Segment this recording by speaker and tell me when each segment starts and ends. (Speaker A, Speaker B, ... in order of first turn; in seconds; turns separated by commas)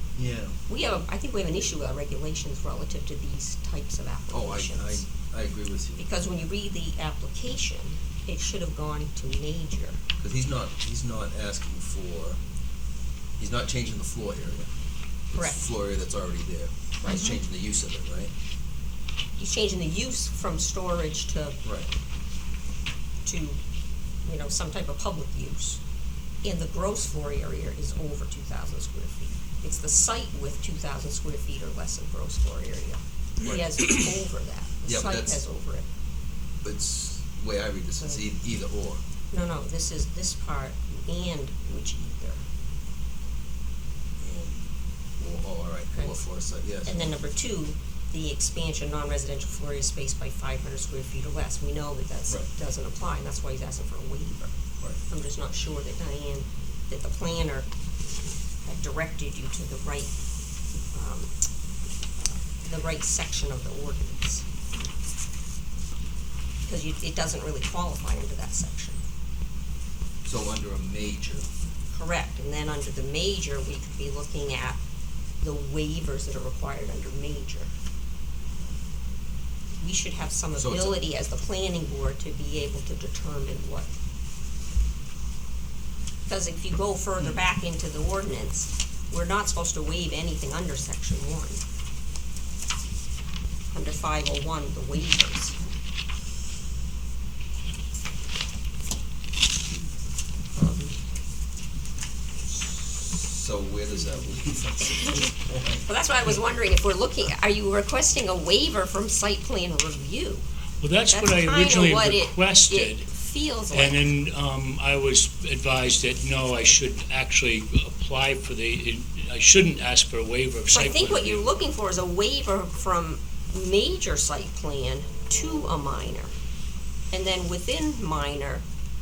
Speaker A: 0.1-0.6, Speaker B: 0.7-5.0, Speaker A: 4.3-6.0, Speaker B: 6.0-10.0, Speaker A: 10.2-12.4, Speaker A: 13.4-14.7, Speaker B: 15.3-15.6, Speaker A: 15.3-18.3, Speaker B: 17.0-17.4, Speaker B: 19.4-21.6, Speaker A: 21.6-21.9, Speaker B: 23.2-23.6, Speaker B: 24.2-25.8, Speaker B: 26.4-35.9, Speaker A: 33.4-33.7, Speaker A: 34.9-35.4, Speaker A: 36.6-39.0, Speaker B: 39.3-42.4, Speaker A: 44.2-47.1, Speaker B: 46.8-57.7, Speaker B: 58.6-60.1, Speaker B: 60.9-61.3, Speaker B: 62.2-64.5, Speaker B: 66.7-69.0, Speaker A: 70.2-71.5, Speaker B: 71.9-74.8, Speaker B: 75.4-77.7, Speaker B: 79.8-83.9, Speaker A: 80.5-81.0, Speaker B: 86.2-91.6, Speaker B: 93.7-95.5, Speaker B: 100.5-100.9, Speaker A: 102.7-105.8, Speaker B: 105.8-110.4, Speaker C: 110.8-113.1, Speaker B: 111.1-114.0, Speaker C: 113.7-121.5, Speaker B: 120.7-126.3, Speaker B: 127.1-128.6